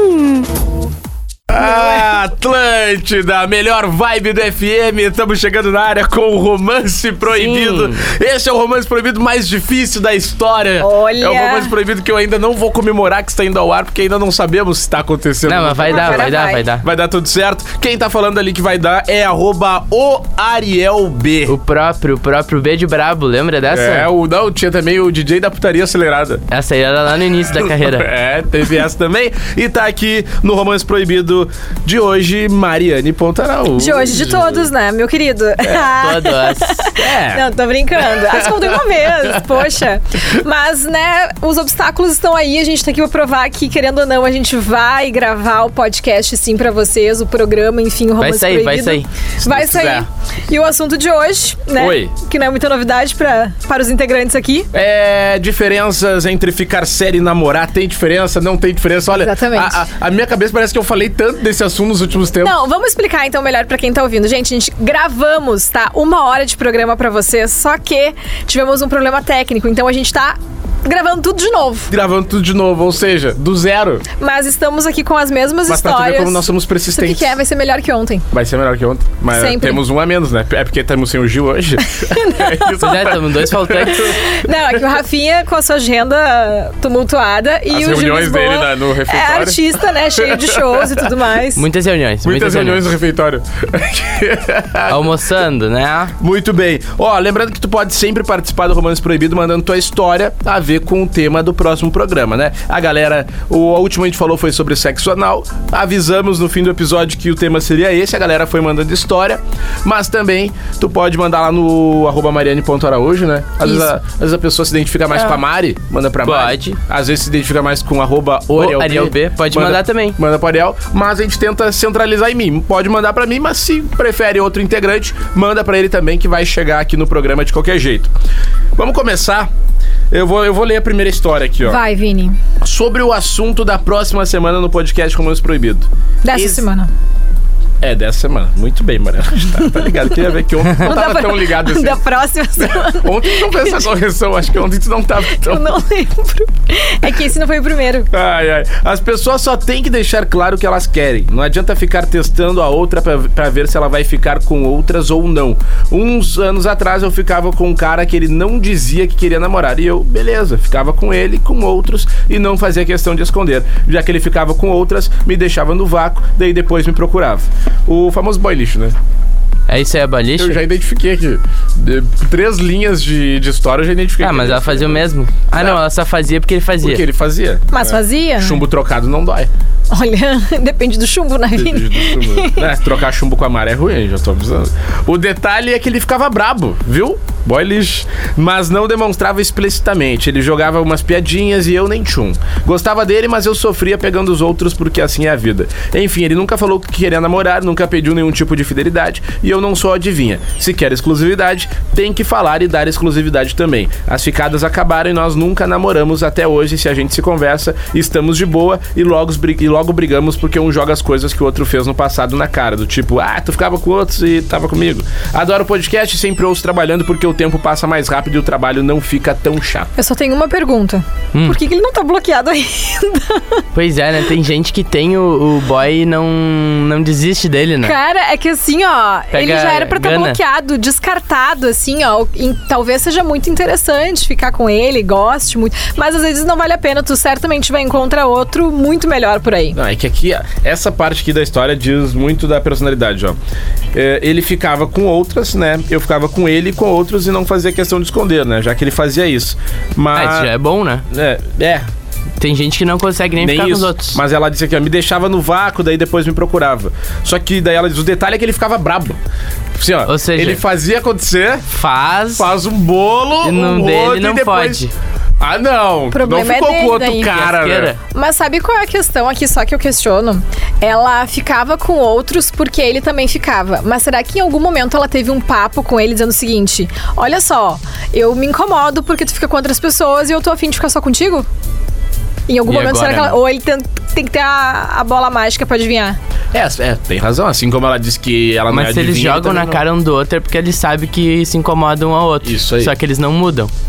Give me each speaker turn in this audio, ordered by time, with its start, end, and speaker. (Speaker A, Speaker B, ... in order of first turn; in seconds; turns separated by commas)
Speaker A: 1.5-21.6, Speaker B: 1.6-2.1, Speaker C: 7.3-8.1, Speaker B: 10.8-11.7, Speaker C: 15.5-16.8, Speaker B: 15.9-16.7, Speaker C: 21.5-24.1, Speaker A: 23.7-26.4, Speaker C: 26.5-28.1, Speaker A: 27.6-34.7, Speaker B: 33.8-54.7, Speaker C: 35.7-36.9, Speaker A: 37.0-37.4, Speaker A: 38.0-39.6, Speaker C: 48.2-49.1, Speaker A: 49.4-50.0, Speaker A: 51.8-52.1, Speaker A: 54.7-62.6, Speaker B: 59.1-59.8, Speaker B: 62.4-71.9, Speaker A: 71.9-74.0, Speaker B: 74.2-78.3, Speaker A: 75.7-77.4, Speaker A: 78.3-84.3, Speaker B: 79.3-79.8, Speaker B: 81.8-82.9, Speaker C: 82.8-84.1, Speaker B: 83.9-91.6, Speaker A: 87.7-91.1, Speaker C: 91.5-92.9, Speaker A: 92.2-95.1, Speaker C: 94.9-96.1, Speaker A: 96.2-128.1, Speaker C: 116.2-116.8, Speaker C: 118.5-120.2, Speaker A: 128.8-129.5, Speaker A: 130.1-131.8, Speaker B: 131.6-132.4, Speaker A: 132.6-136.6, Speaker B: 136.2-136.9, Speaker A: 137.8-142.0, Speaker B: 140.7-143.9, Speaker A: 142.6-145.7, Speaker B: 145.3-148.1, Speaker A: 148.1-168.9, Speaker C: 169.7-170.6, Speaker A: 170.4-175.8, Speaker C: 174.2-177.0, Speaker A: 176.8-179.5, Speaker B: 177.7-178.7, Speaker B: 179.9-182.6, Speaker A: 181.5-219.9, Speaker B: 220.0-223.6, Speaker C: 223.8-227.9, Speaker B: 227.8-239.8, Speaker C: 229.3-230.4, Speaker A: 239.8-243.4, Speaker A: 243.9-250.5, Speaker C: 250.1-251.1, Speaker A: 251.1-251.8, Speaker C: 252.4-254.2, Speaker A: 253.4-259.2, Speaker A: 259.8-261.7, Speaker C: 260.1-260.6, Speaker C: 261.7-262.5, Speaker A: 262.3-264.8, Speaker C: 263.4-264.9, Speaker A: 265.4-268.0, Speaker B: 266.1-267.3, Speaker C: 267.3-268.0, Speaker B: 268.1-281.5, Speaker B: 282.5-286.2, Speaker C: 282.7-283.4, Speaker A: 286.5-289.8, Speaker C: 288.7-293.7, Speaker A: 292.4-292.9